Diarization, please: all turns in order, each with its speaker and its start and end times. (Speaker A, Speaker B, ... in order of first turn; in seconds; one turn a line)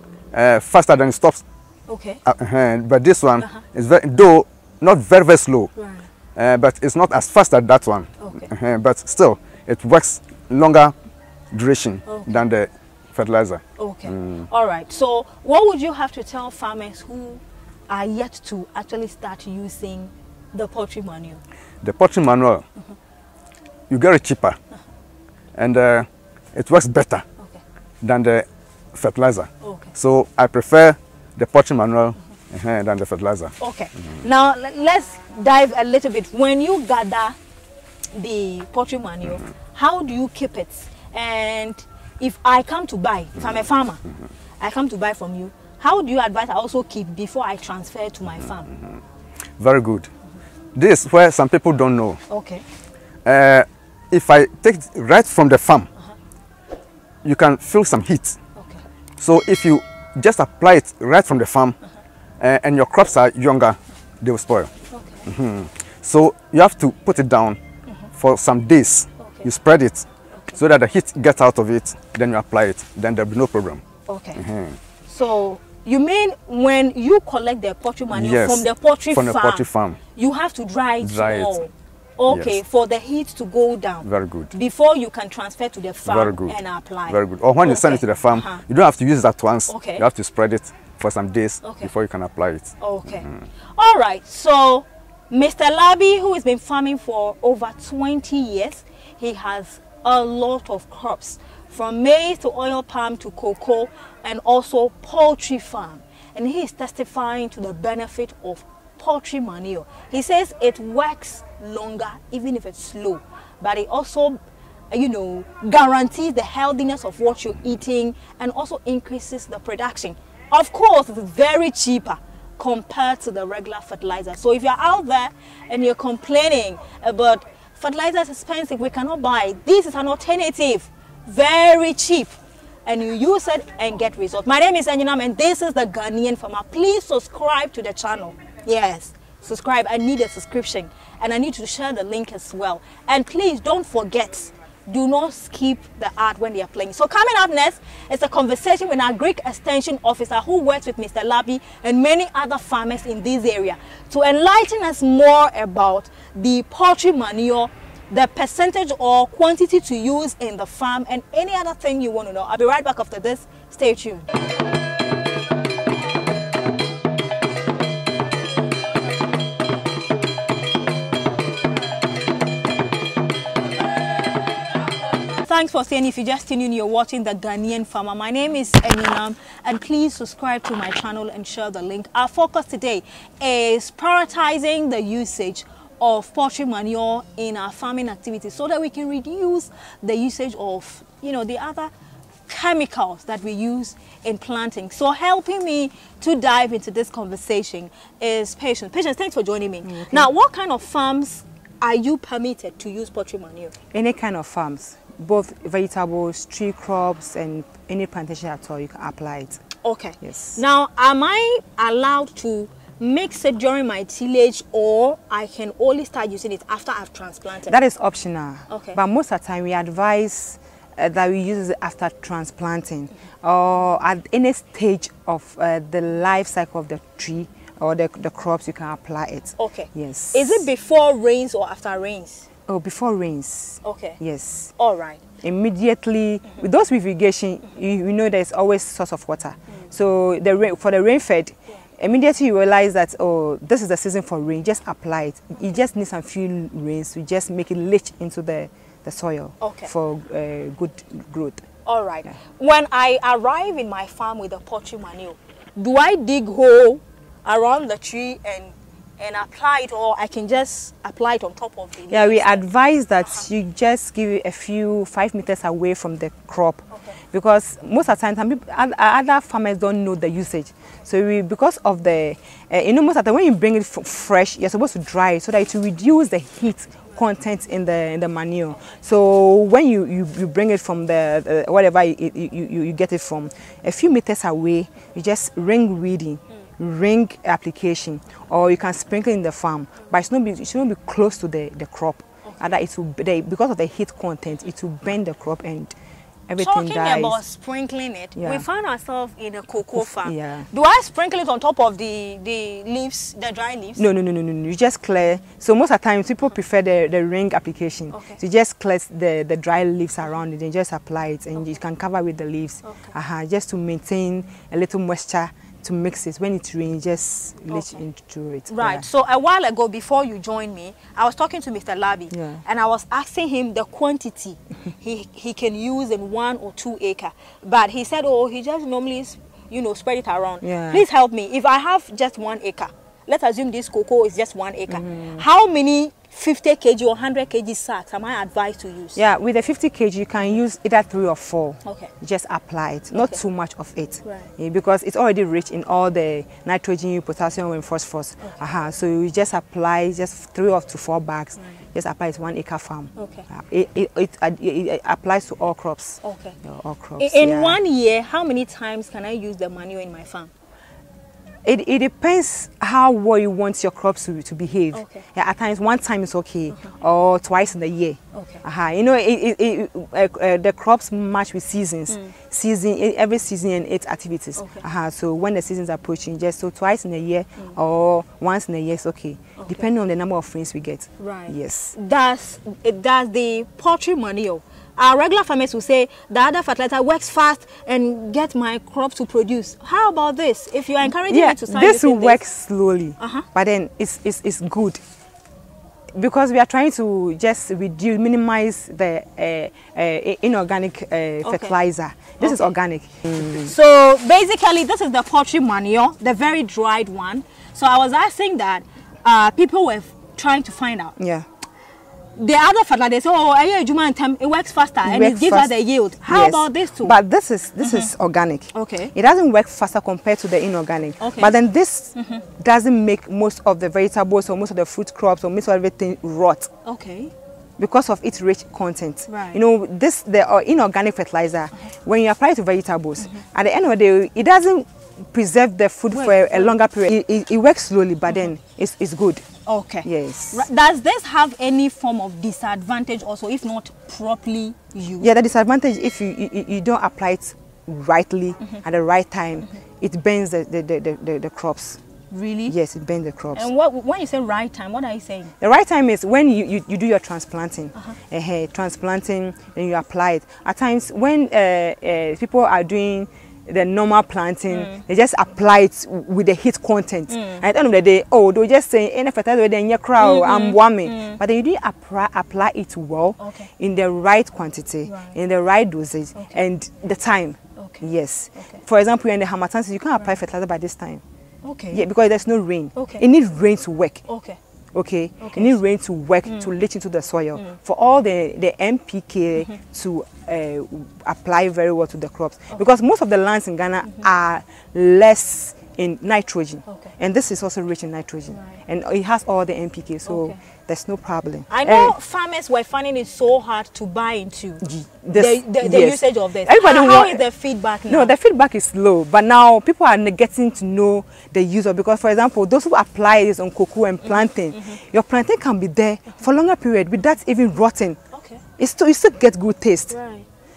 Speaker A: 0.3-1.4
Speaker B: 1.9-2.2
Speaker A: 2.2-5.7
Speaker B: 5.8-6.1
Speaker A: 6.4-10.9
Speaker B: 8.2-8.5
Speaker A: 11.5-14.5
Speaker B: 12.1-12.3
Speaker B: 13.8-21.4
Speaker A: 21.8-22.6
Speaker A: 23.9-24.6
Speaker A: 25.6-27.2
Speaker A: 28.0-33.5
Speaker B: 29.6-29.9
Speaker B: 33.6-37.4
Speaker B: 38.1-44.0
Speaker B: 44.6-48.7
Speaker A: 49.6-50.1
Speaker A: 50.8-52.2
Speaker B: 52.3-52.6
Speaker A: 53.2-55.9
Speaker A: 57.2-58.4
Speaker B: 58.5-58.9
Speaker A: 59.2-61.8
Speaker A: 62.4-64.7
Speaker B: 64.9-65.3
Speaker A: 65.3-67.6
Speaker A: 68.2-73.8
Speaker B: 69.2-69.5
Speaker B: 74.1-74.4
Speaker A: 74.4-74.8
Speaker B: 75.1-88.6
Speaker A: 78.1-80.0
Speaker A: 81.0-81.6
Speaker A: 82.3-82.6
Speaker A: 84.0-84.5
Speaker A: 86.1-86.6
Speaker A: 87.1-92.7
Speaker B: 89.7-90.1
Speaker B: 91.6-91.9
Speaker B: 92.8-114.4
Speaker B: 114.9-132.3
Speaker B: 132.9-164.3
Speaker B: 175.4-191.9
Speaker B: 192.5-203.7
Speaker C: 199.8-200.3
Speaker C: 203.9-209.6
Speaker B: 209.8-217.8
Speaker C: 210.2-210.6
Speaker C: 217.7-230.7
Speaker B: 218.7-219.0
Speaker B: 229.6-232.5
Speaker C: 232.7-234.7
Speaker B: 233.8-234.2
Speaker B: 234.8-235.2
Speaker C: 235.4-251.6
Speaker B: 249.6-249.9
Speaker B: 251.8-262.6
Speaker C: 262.1-295.9
Speaker C: 296.5-297.4
Speaker B: 296.6-304.1
Speaker C: 298.4-298.6
Speaker C: 299.9-300.7
Speaker C: 304.0-319.1
Speaker B: 308.1-308.4
Speaker B: 312.8-313.1
Speaker B: 317.7-318.0
Speaker B: 318.7-339.2
Speaker C: 322.3-322.6
Speaker C: 330.6-331.0
Speaker C: 334.9-335.4
Speaker C: 339.1-357.8
Speaker B: 341.8-342.1
Speaker B: 343.1-343.4
Speaker B: 344.2-344.5
Speaker B: 353.2-353.5
Speaker B: 356.2-356.6
Speaker B: 357.2-360.5
Speaker C: 361.6-381.9
Speaker B: 364.9-365.2
Speaker B: 368.3-368.6
Speaker B: 374.6-374.9
Speaker B: 379.6-379.9
Speaker B: 381.2-392.4
Speaker C: 391.0-395.0
Speaker B: 393.2-393.5
Speaker C: 396.1-403.7
Speaker B: 401.4-401.8
Speaker B: 402.4-402.7
Speaker B: 403.3-411.2
Speaker C: 411.2-411.4
Speaker B: 412.4-417.2
Speaker C: 415.0-426.7
Speaker B: 417.8-418.1
Speaker B: 418.7-419.1
Speaker B: 421.2-421.5
Speaker B: 422.1-422.5
Speaker B: 426.8-427.3
Speaker C: 427.8-439.4
Speaker B: 429.3-429.6
Speaker B: 436.1-436.8
Speaker B: 439.7-445.3
Speaker C: 440.0-440.7
Speaker C: 445.2-452.0
Speaker B: 452.3-452.8
Speaker C: 452.7-453.7
Speaker B: 453.5-455.5
Speaker C: 455.6-481.2
Speaker B: 464.7-465.0
Speaker B: 467.3-467.6
Speaker B: 470.2-471.4
Speaker B: 473.4-473.7
Speaker B: 475.1-475.4
Speaker B: 476.4-476.6
Speaker B: 477.8-478.8
Speaker B: 481.6-482.0
Speaker C: 481.9-484.2
Speaker B: 482.9-483.2
Speaker B: 484.3-484.6
Speaker C: 484.9-502.1
Speaker B: 485.4-485.8
Speaker B: 486.5-486.7
Speaker B: 496.9-497.1
Speaker B: 498.5-498.8
Speaker B: 500.3-500.6
Speaker B: 501.7-508.3
Speaker C: 504.8-507.4
Speaker C: 508.1-518.2
Speaker B: 514.2-515.0
Speaker B: 518.3-518.6
Speaker C: 518.8-520.1
Speaker B: 520.1-520.5